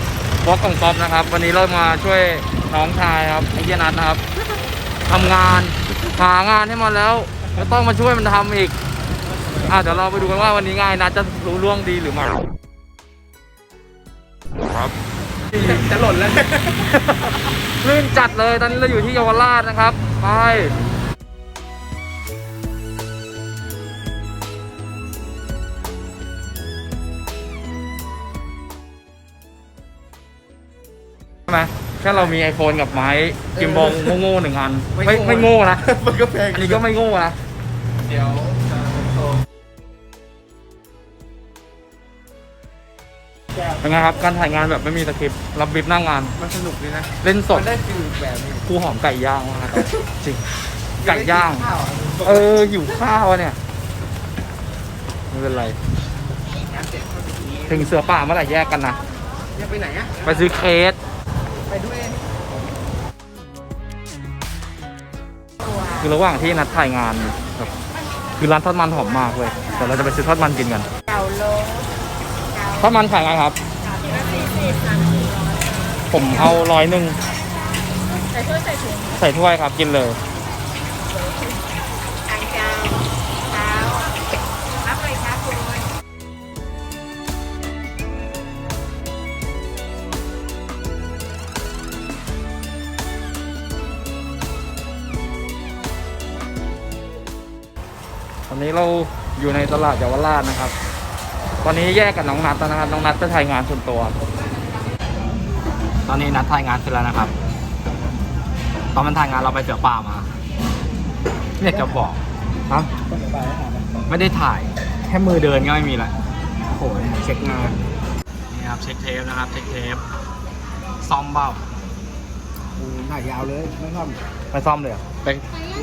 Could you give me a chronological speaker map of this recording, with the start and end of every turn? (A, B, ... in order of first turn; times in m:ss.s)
0:00.4-0:04.2 A
0:05.0-0:08.7 A
0:09.6-0:12.5 A
0:15.6-0:16.6 B
0:16.9-0:20.7 A
0:31.5-0:37.4 A
0:34.9-0:36.8 B
0:38.1-0:38.7 B
0:43.8-0:46.4 A
0:46.4-0:48.6 B
0:47.2-0:47.7 A
0:48.6-0:50.4 A
0:51.0-0:53.6 A
0:51.0-0:52.5 B
0:55.3-0:55.8 A
0:56.7-0:57.7 B
0:57.7-0:59.0 A
0:59.5-1:00.3 B
1:00.2-1:01.0 A
1:01.7-1:02.2 B
1:05.9-1:07.7 A
1:08.4-1:10.9 A
1:11.1-1:11.9 C
1:12.7-1:13.6 A
1:13.9-1:15.4 C
1:16.1-1:17.2 A
1:18.3-1:18.9 C
1:19.0-1:20.2 A
1:22.3-1:24.2 C
1:24.8-1:25.8 C
1:38.5-1:40.7 A
1:41.6-1:44.2 A
1:46.1-1:47.3 A
1:48.9-1:50.3 A
1:51.6-1:52.9 A
1:51.7-1:52.0 B
1:53.0-1:54.1 B
1:54.1-1:56.1 A
1:56.7-1:57.8 B
1:57.3-1:57.5 A
1:58.5-2:00.0 A
2:01.0-2:01.6 A
2:02.8-2:04.2 B
2:04.5-2:05.4 A